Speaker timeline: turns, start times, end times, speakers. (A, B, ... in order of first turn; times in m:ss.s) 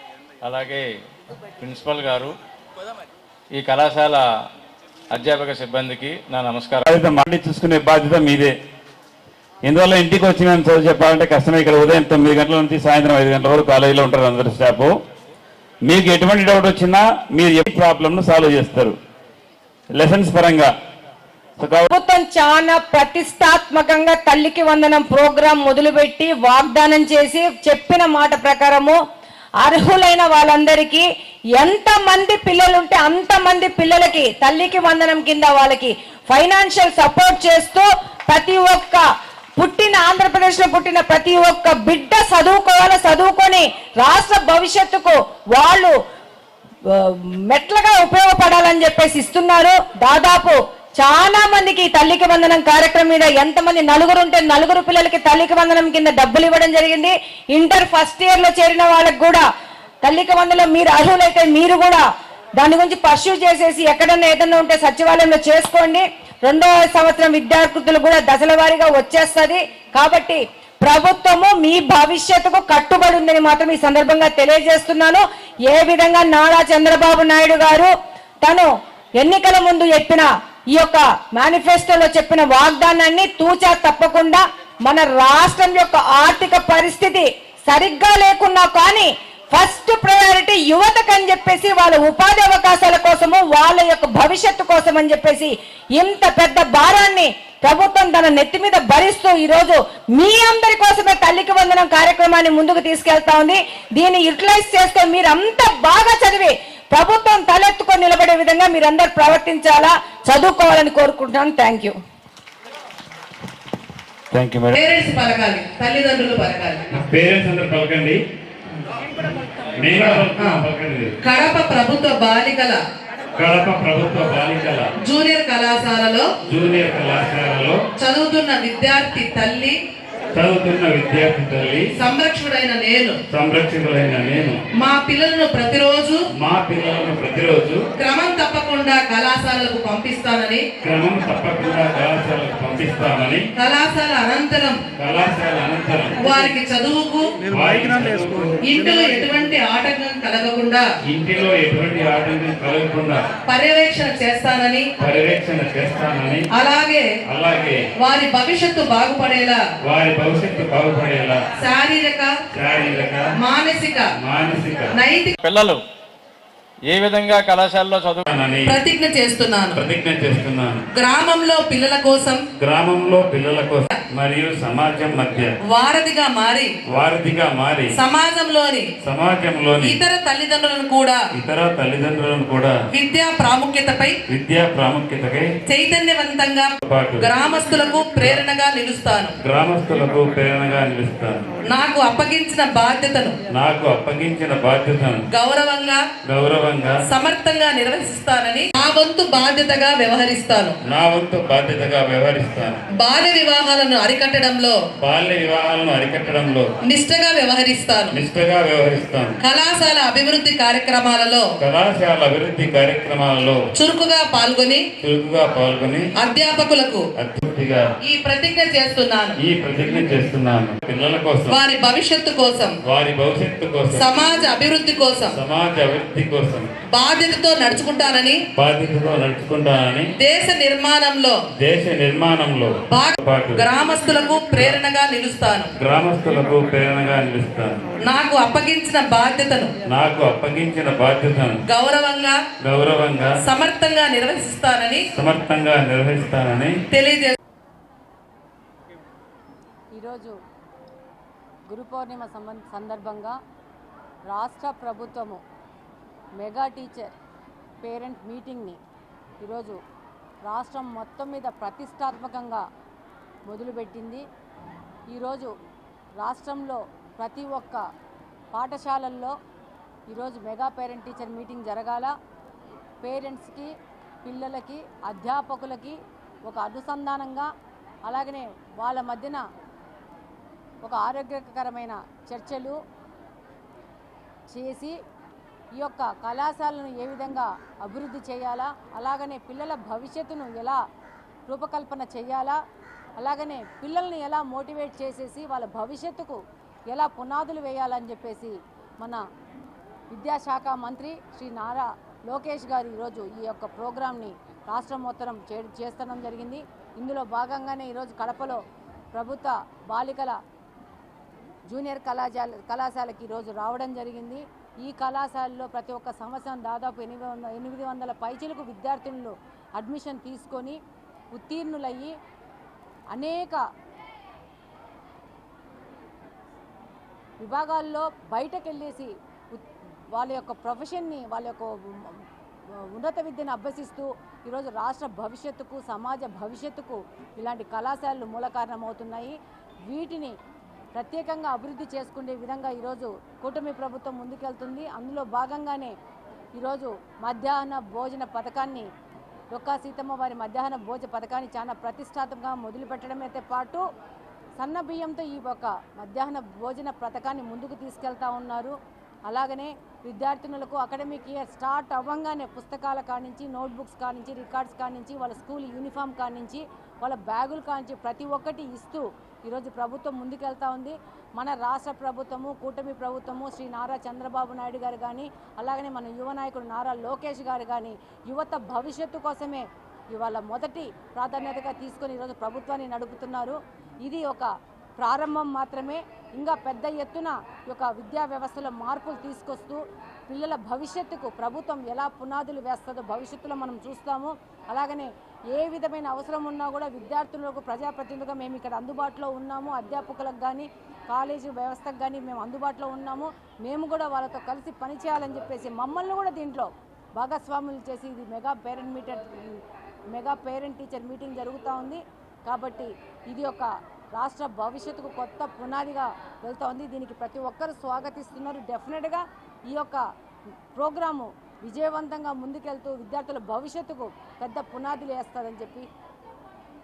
0:00.4-0:00.9 A
0:01.6-0:02.3 A
0:03.5-0:04.2 A
0:05.1-0:06.8 A
0:06.9-0:08.6 B
0:09.6-0:15.0 B
0:15.8-0:19.0 B
0:19.9-0:20.7 B
0:21.6-0:21.9 B
0:21.9-0:29.0 C
0:29.6-0:31.1 C
0:31.6-0:39.0 C
0:39.6-0:45.9 C
0:46.9-0:59.5 C
1:00.0-1:02.0 C
1:02.6-1:17.9 C
1:18.4-1:52.0 C
1:54.3-1:54.8 B
1:54.7-1:56.9 D
1:56.9-1:58.2 B
1:59.8-2:01.1 B
2:00.1-2:00.6 D
2:01.2-2:02.8 D
2:03.4-2:04.9 B
2:05.0-2:06.3 D
2:06.5-2:07.8 B
2:08.0-2:09.8 D
2:10.4-2:11.9 B
2:12.0-2:13.2 D
2:13.3-2:14.6 B
2:14.8-2:16.2 D
2:16.4-2:17.8 B
2:18.0-2:20.7 D
2:20.8-2:23.4 B
2:23.6-2:24.8 D
2:25.0-2:26.3 B
2:26.2-2:27.5 D
2:27.5-2:28.6 B
2:28.6-2:30.8 D
2:31.1-2:33.3 B
2:33.5-2:34.9 D
2:35.0-2:36.5 B
2:36.5-2:37.1 D
2:37.3-2:37.8 B
2:38.0-2:39.6 D
2:39.8-2:41.4 B
2:41.6-2:42.3 D
2:42.5-2:43.3 B
2:43.4-2:44.1 D
2:44.2-2:45.0 B
2:44.9-2:45.3 D
2:45.4-2:45.8 A
2:46.9-2:48.2 A
2:48.3-2:48.8 B
2:48.7-2:49.8 D
2:49.8-2:50.8 B
2:50.9-2:52.4 D
2:52.6-2:55.5 B
2:55.7-2:56.7 D
2:56.9-2:57.9 B
2:57.9-2:58.9 D
2:59.0-3:00.0 B
2:59.8-3:01.2 D
3:01.3-3:02.7 B
3:02.9-3:04.2 D
3:04.3-3:05.5 B
3:05.7-3:09.4 D
3:06.8-3:07.3 B
3:09.4-3:11.5 B
3:11.7-3:13.4 D
3:13.5-3:15.3 B
3:15.3-3:16.0 D
3:16.2-3:17.0 B
3:17.0-3:20.8 D
3:20.8-3:22.8 B
3:23.0-3:24.8 D
3:25.0-3:26.7 B
3:26.8-3:28.2 D
3:28.1-3:29.4 B
3:29.4-3:31.4 D
3:31.6-3:33.6 B
3:33.7-3:34.8 D
3:35.0-3:36.1 B
3:36.2-3:37.0 D
3:37.2-3:37.8 B
3:38.0-3:39.4 D
3:39.4-3:41.6 B
3:41.5-3:42.8 D
3:42.8-3:44.1 B
3:43.9-3:45.4 D
3:45.3-3:46.7 B
3:46.9-3:48.4 D
3:48.5-3:50.1 B
3:50.2-3:51.4 D
3:51.6-3:53.7 B
3:52.9-3:55.7 D
3:55.8-3:57.8 B
3:58.0-3:59.7 D
3:59.9-4:01.6 B
4:01.6-4:02.4 D
4:02.6-4:03.4 B
4:03.4-4:05.0 D
4:05.1-4:06.8 B
4:06.9-4:07.4 D
4:10.0-4:10.4 E
4:11.7-4:13.4 E
4:14.3-4:15.4 E
4:16.4-4:17.1 E
4:17.8-4:18.8 E
4:19.4-4:19.8 E
4:20.5-4:22.6 E
4:23.5-4:24.2 E
4:25.1-4:25.5 E
4:26.2-4:27.8 E
4:28.5-4:29.4 E
4:30.1-4:32.1 E
4:33.0-4:33.7 E
4:34.2-4:37.5 E
4:38.0-4:39.4 E
4:40.8-4:42.8 E
4:44.5-4:45.0 E
4:45.8-4:50.8 E
4:51.5-4:52.6 E
4:53.2-4:56.4 E
4:56.9-4:59.2 E
5:00.1-5:08.6 E
5:09.1-5:10.4 E
5:11.7-5:20.8 E
5:21.4-5:22.1 E
5:23.1-5:23.6 E
5:27.4-5:29.6 E
5:30.1-5:32.2 E
5:32.8-5:39.4 E
5:39.9-5:40.4 E
5:41.0-5:45.9 E
5:46.6-5:48.9 E
5:49.5-5:53.8 E
5:54.6-5:58.8 E
5:59.3-6:49.6 E
6:50.1-7:00.0 E
7:00.7-7:05.9 E